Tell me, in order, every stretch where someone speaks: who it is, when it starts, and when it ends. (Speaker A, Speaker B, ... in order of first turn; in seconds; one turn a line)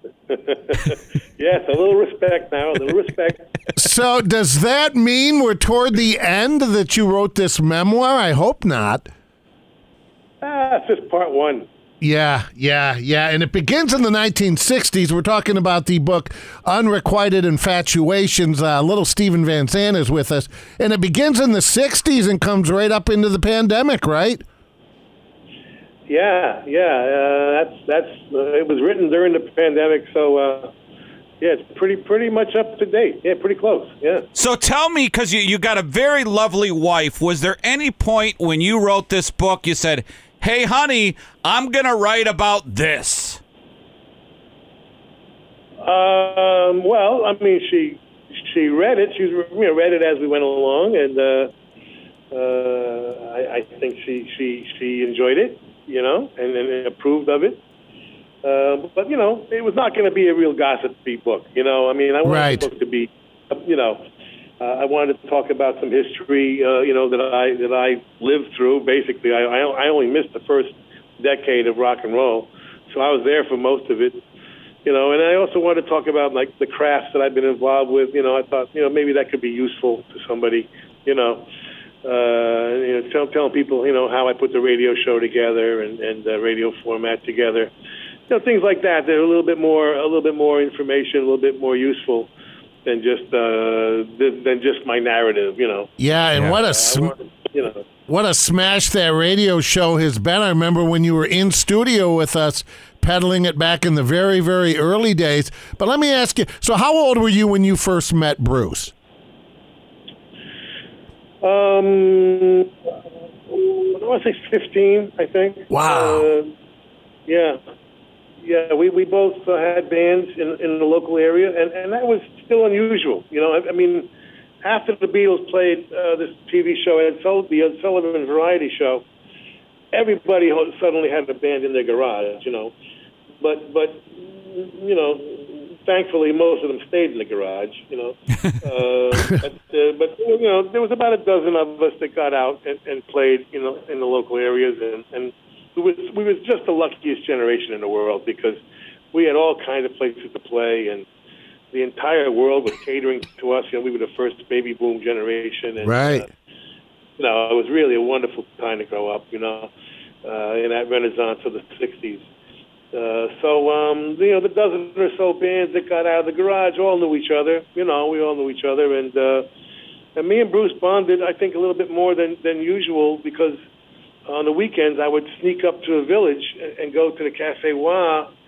Speaker A: 0.3-3.5
Speaker B: 3.8-9.1
Speaker A: 10.4-11.7
Speaker B: 12.0-24.4
Speaker A: 26.1-30.7
Speaker A: 31.4-34.3
Speaker C: 34.3-43.4
Speaker A: 45.8-51.5
Speaker A: 52.3-57.6
Speaker A: 58.4-64.0
Speaker B: 62.2-62.6
Speaker A: 64.6-74.2
Speaker A: 74.8-81.4
Speaker A: 82.0-87.7
Speaker A: 88.3-92.3
Speaker A: 92.8-97.8
Speaker B: 96.0-97.1
Speaker B: 98.1-108.9
Speaker A: 111.4-112.7
Speaker A: 113.5-116.5
Speaker B: 115.7-116.3
Speaker A: 117.3-117.6
Speaker A: 118.4-124.1
Speaker A: 124.6-129.1
Speaker A: 129.9-132.7
Speaker A: 133.4-148.6
Speaker A: 149.1-151.1
Speaker A: 151.7-156.3
Speaker B: 155.8-156.2
Speaker A: 157.2-159.7
Speaker A: 160.2-162.3
Speaker A: 162.9-169.5
Speaker A: 170.2-173.6
Speaker A: 174.3-178.3